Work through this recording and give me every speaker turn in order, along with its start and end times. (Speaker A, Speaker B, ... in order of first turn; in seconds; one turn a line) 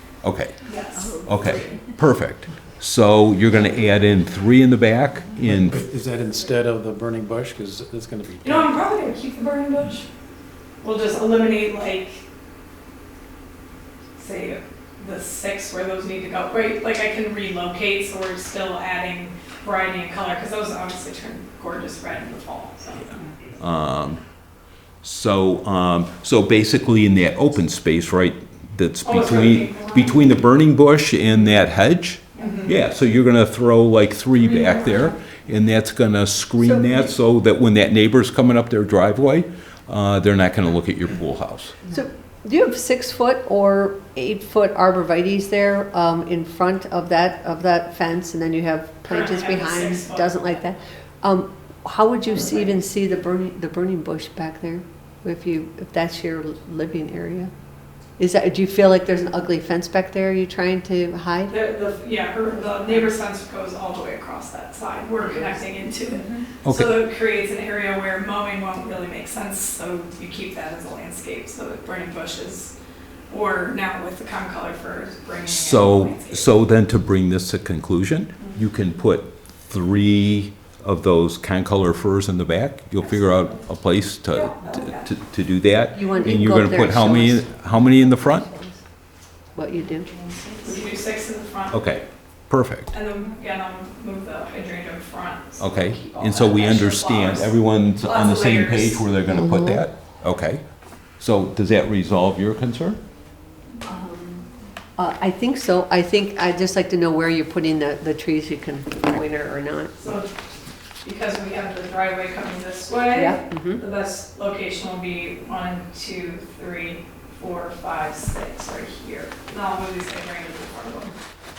Speaker A: 0.2-0.5
Speaker B: 0.6-1.2
Speaker C: 0.9-1.8
Speaker A: 1.2-5.8
Speaker D: 5.5-8.7
Speaker B: 8.4-10.1
Speaker B: 10.8-12.2
Speaker B: 14.2-23.1
Speaker A: 23.6-24.2
Speaker A: 25.0-41.8
Speaker B: 29.0-30.3
Speaker B: 32.4-32.7
Speaker B: 34.4-35.1
Speaker C: 36.6-37.1
Speaker C: 41.9-57.5
Speaker B: 49.1-50.5
Speaker C: 58.2-61.5
Speaker B: 61.5-72.7
Speaker A: 66.6-66.9
Speaker B: 73.3-76.5
Speaker A: 75.4-88.5
Speaker B: 84.3-85.1
Speaker C: 85.9-88.8
Speaker C: 89.5-90.2
Speaker B: 90.6-91.8
Speaker A: 91.7-92.9
Speaker B: 92.9-97.5
Speaker A: 95.6-100.6
Speaker B: 98.0-99.0
Speaker C: 99.3-99.8
Speaker A: 101.2-103.0
Speaker C: 103.8-104.4
Speaker C: 105.0-109.9
Speaker B: 110.0-110.3
Speaker B: 111.0-121.1
Speaker C: 113.1-113.8